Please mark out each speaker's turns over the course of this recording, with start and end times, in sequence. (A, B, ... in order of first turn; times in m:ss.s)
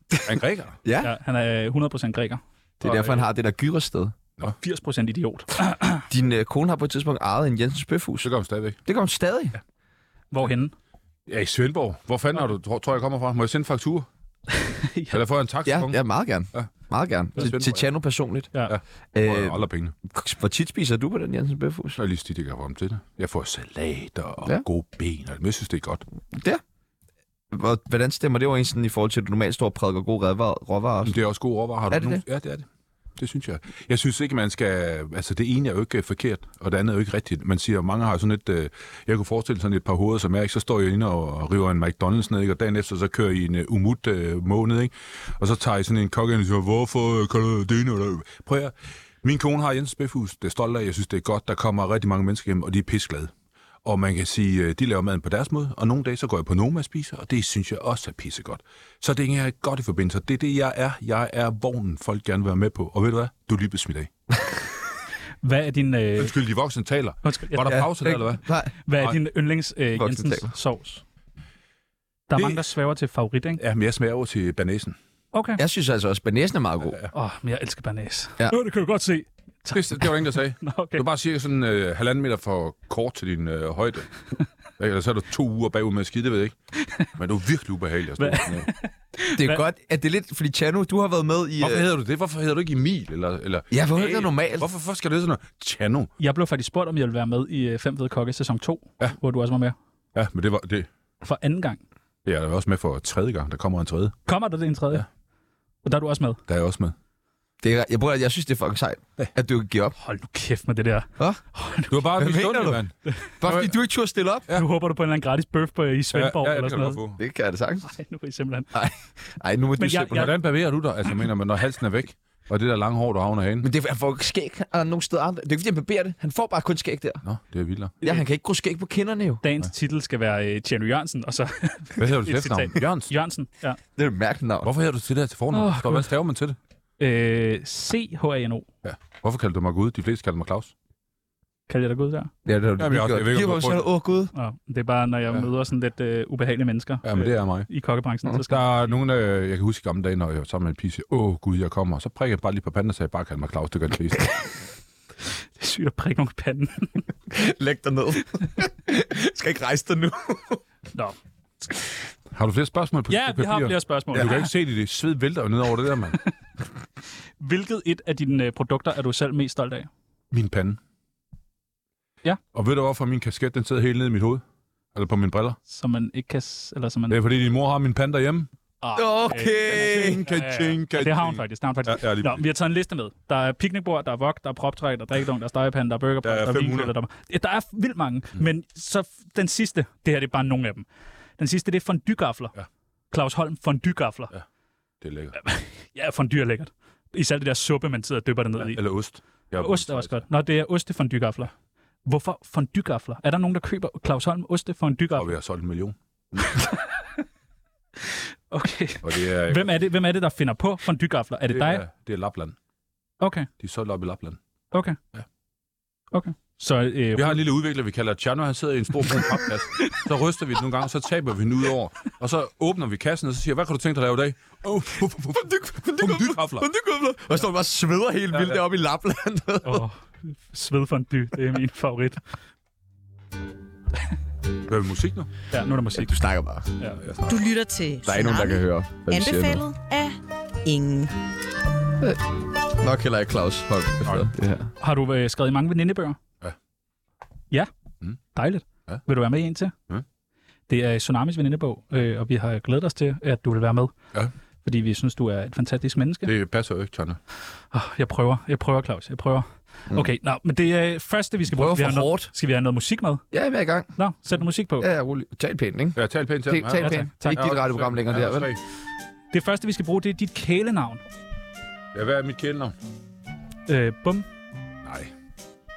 0:00.2-0:00.8 A
0:00.8-0:01.1 B
0:01.0-0:03.3 C
0:02.8-0:04.2 B
0:04.6-0:06.1 C
0:06.1-0:08.3 B
0:08.2-0:08.8 A
0:08.9-0:09.6 B
0:10.3-0:10.7 C
0:11.3-0:14.1 A
0:14.5-0:15.2 C
0:15.1-0:16.0 A
0:15.7-0:18.5 B
0:17.4-0:17.9 A
0:18.7-0:20.0 A
0:19.1-0:22.0 B
0:22.0-0:26.0 A
0:26.3-0:26.6 B
0:27.5-0:31.2 B
0:31.0-0:53.3 A
0:31.9-0:32.2 B
0:53.8-1:04.1 A
1:05.4-1:06.4 C
1:06.2-1:08.4 A
1:07.2-1:07.8 C
1:07.6-1:08.7 B
1:08.8-1:11.0 C
1:10.0-1:10.5 B
1:12.3-1:13.6 C
1:12.4-1:12.6 A
1:13.6-1:15.0 A
1:15.3-1:15.6 C
1:15.6-1:17.0 B
1:17.1-1:21.0 C
1:19.7-1:24.1 A
1:24.8-1:26.6 A
1:26.8-1:27.1 C
1:27.1-1:28.7 A
1:28.2-1:29.6 C
1:29.4-1:31.8 B
1:31.6-1:36.1 A
1:33.7-1:34.7 B
1:36.2-1:39.8 C
1:40.2-1:40.9 A
1:41.2-1:41.8 C
1:42.2-1:44.2 A
1:44.3-1:45.1 C
1:45.8-1:46.4 C
1:46.5-1:47.0 A
1:47.6-1:50.0 B
1:50.0-1:52.1 C
1:51.9-1:53.8 A
1:52.2-1:52.8 B
1:53.4-1:54.5 B
1:54.5-1:57.0 C
1:56.1-1:57.2 A
1:57.2-1:57.9 B
1:57.8-1:58.7 C
1:58.7-2:00.3 B
1:59.8-2:00.4 C
2:00.1-2:03.7 A
2:03.6-2:07.2 B
2:07.2-2:08.0 A
2:08.0-2:09.4 B
2:09.4-2:13.8 C
2:12.0-2:13.1 A
2:14.0-2:14.7 B
2:14.6-2:16.6 A
2:15.5-2:16.1 C
2:17.0-2:18.7 C
2:18.8-2:20.7 A
2:21.7-2:22.3 C
2:22.4-2:24.3 B
2:22.8-2:23.9 A
2:24.3-2:29.0 C
2:27.0-2:27.7 A
2:28.4-2:34.3 A
2:35.6-2:37.1 C
2:37.3-2:40.6 B
2:42.3-2:46.2 A
2:43.1-2:44.5 C
2:47.4-2:49.9 C
2:50.3-2:50.8 A
2:52.5-2:54.4 A
2:54.9-2:55.6 A
2:55.7-2:57.2 C
2:57.1-2:58.5 A
2:58.8-3:10.9 C
2:59.0-3:00.3 B
2:59.7-3:02.4 A
3:06.2-3:06.9 A
3:11.4-3:12.6 C
3:13.1-3:14.3 C
3:15.0-3:15.4 A
3:15.4-3:18.8 C
3:18.6-3:20.2 A
3:19.6-3:21.5 C
3:22.0-3:25.3 C
3:25.2-3:26.5 A
3:26.5-3:26.8 C
3:28.0-3:31.8 C
3:29.0-3:29.8 A
3:31.5-3:32.6 A
3:33.2-3:33.5 C
3:33.6-3:34.4 A
3:34.7-3:35.0 C
3:36.1-3:37.4 C
3:37.2-3:46.7 A
3:45.3-3:49.8 B
3:48.3-3:48.6 A
3:49.6-3:52.3 C
3:54.7-3:55.3 A
3:55.5-3:56.2 C
3:56.0-3:56.7 B
3:57.0-3:57.4 A
3:57.3-4:01.1 D
3:58.0-3:59.6 B
4:02.0-4:04.7 B
4:04.0-4:04.3 A
4:04.8-4:06.2 C
4:08.3-4:09.7 C
4:10.7-4:13.9 C
4:14.6-4:16.3 C
4:16.2-4:17.2 A
4:17.7-4:23.2 C
4:21.5-4:22.3 B
4:23.3-4:23.9 B
4:24.0-4:24.9 C
4:24.8-4:28.5 B
4:26.0-4:28.6 A
4:26.7-4:27.5 C
4:29.3-4:31.0 C
4:31.9-4:32.8 A
4:33.7-4:34.3 C
4:34.8-4:35.1 A